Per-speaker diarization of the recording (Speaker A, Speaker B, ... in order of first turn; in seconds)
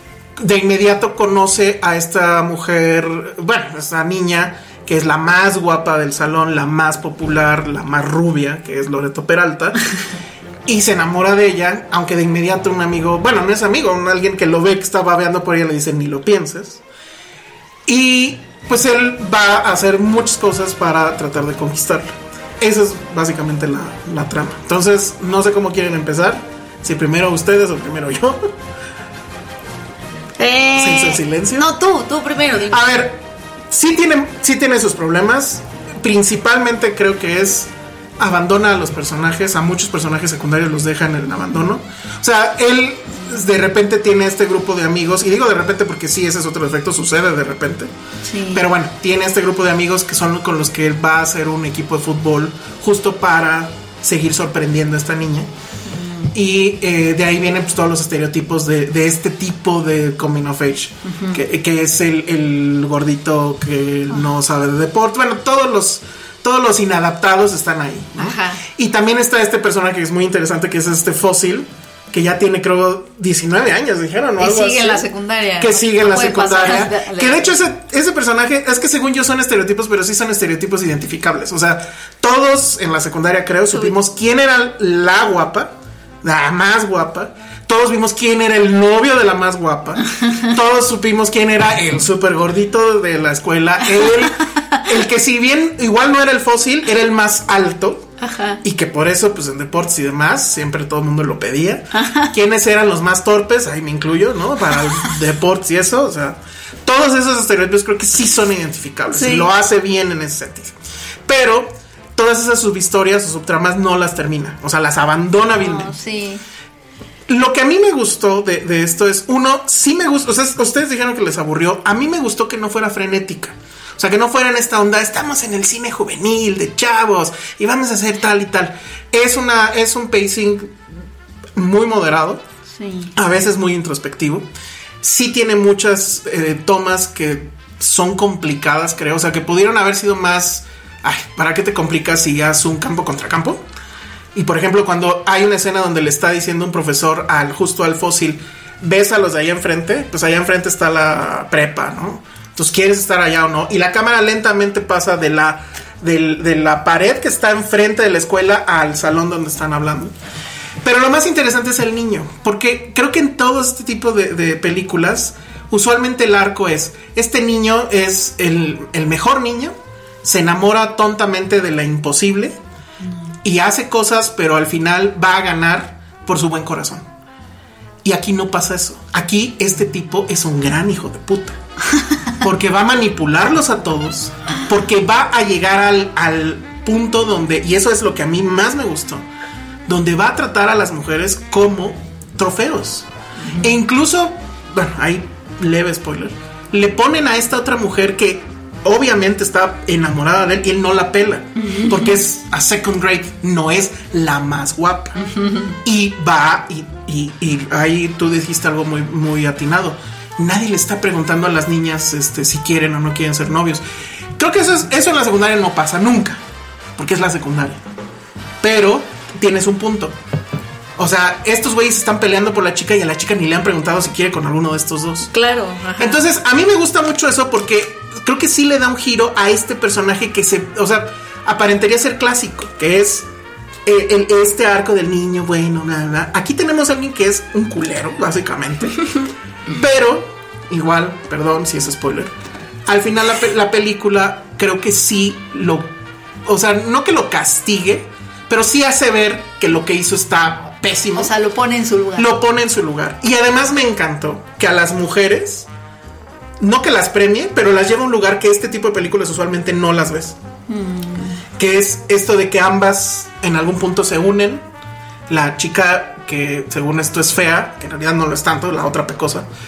Speaker A: 0.4-9.8, 10.7-16.8, 17.9-28.5, 30.8-31.7, 32.7-47.9, 48.5-55.5, 56.3-75.1, 75.6-98.1, 98.6-110.7, 111.3-115.9, 117.3-130.8, 131.6-132.4, 133.2-134.4, 135.0-143.6, 144.3-160.1, 160.8-172.6, 173.4-177.1, 178.0-181.6, 182.4-189.2, 189.9-193.1, 193.6-205.2, 205.8-213.8, 214.4-216.4, 217.0-217.8, 218.6-220.1, 221.0-225.3, 226.0-233.3, 233.8-239.1, 239.7-242.3, 242.8-245.9, 246.4-251.3, 252.2-255.7, 256.6-260.4, 261.6-264.6, 265.3-269.5
Speaker B: 30.4-32.8, 48.2-48.6, 55.9-56.3, 61.1-61.4, 68.2-68.6, 74.4-77.6, 98.2-98.6, 101.9-102.3, 109.1-109.5, 115.6-116.4, 132.8-133.1, 201.6-202.2, 205.2-205.8, 225.3-226.2, 251.2-252.3, 260.7-261.4